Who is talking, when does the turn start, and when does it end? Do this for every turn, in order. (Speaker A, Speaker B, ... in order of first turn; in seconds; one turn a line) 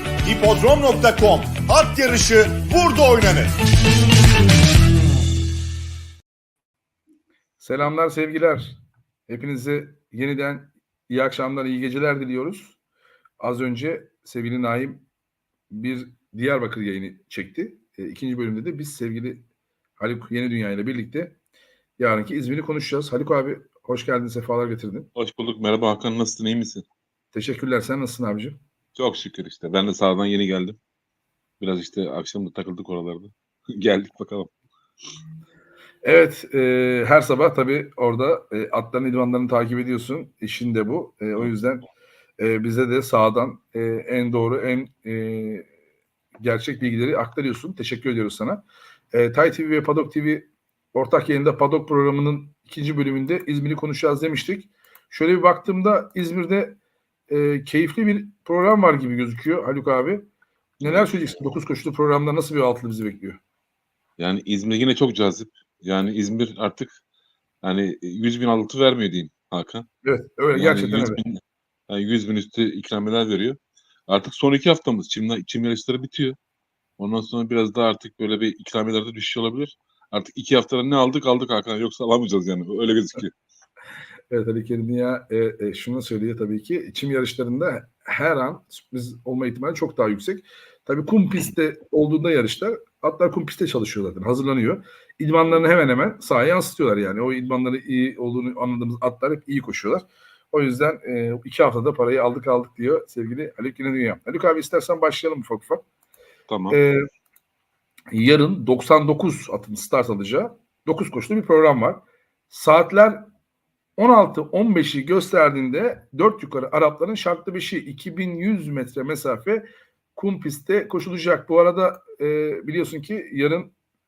Speaker A: 0.2-3.5
Speaker B: 7.6-8.8
Speaker B: 9.3-12.7
Speaker B: 13.4-15.0
Speaker B: 15.7-19.4
Speaker B: 20.0-21.3
Speaker B: 22.0-25.1
Speaker C: 25.1-26.8
Speaker B: 27.3-28.6
Speaker C: 28.9-30.8
Speaker C: 31.6-34.5
Speaker B: 36.0-41.9
Speaker B: 42.4-45.7
Speaker B: 46.4-56.8
Speaker B: 57.3-60.3
Speaker B: 60.8-63.4
Speaker C: 64.2-67.0
Speaker C: 67.6-69.8
Speaker B: 70.0-71.2
Speaker C: 70.5-76.4
Speaker C: 77.0-83.3
Speaker B: 84.3-105.8
Speaker C: 106.5-106.8
Speaker B: 106.7-107.0
Speaker B: 108.1-113.3
Speaker B: 114.0-123.7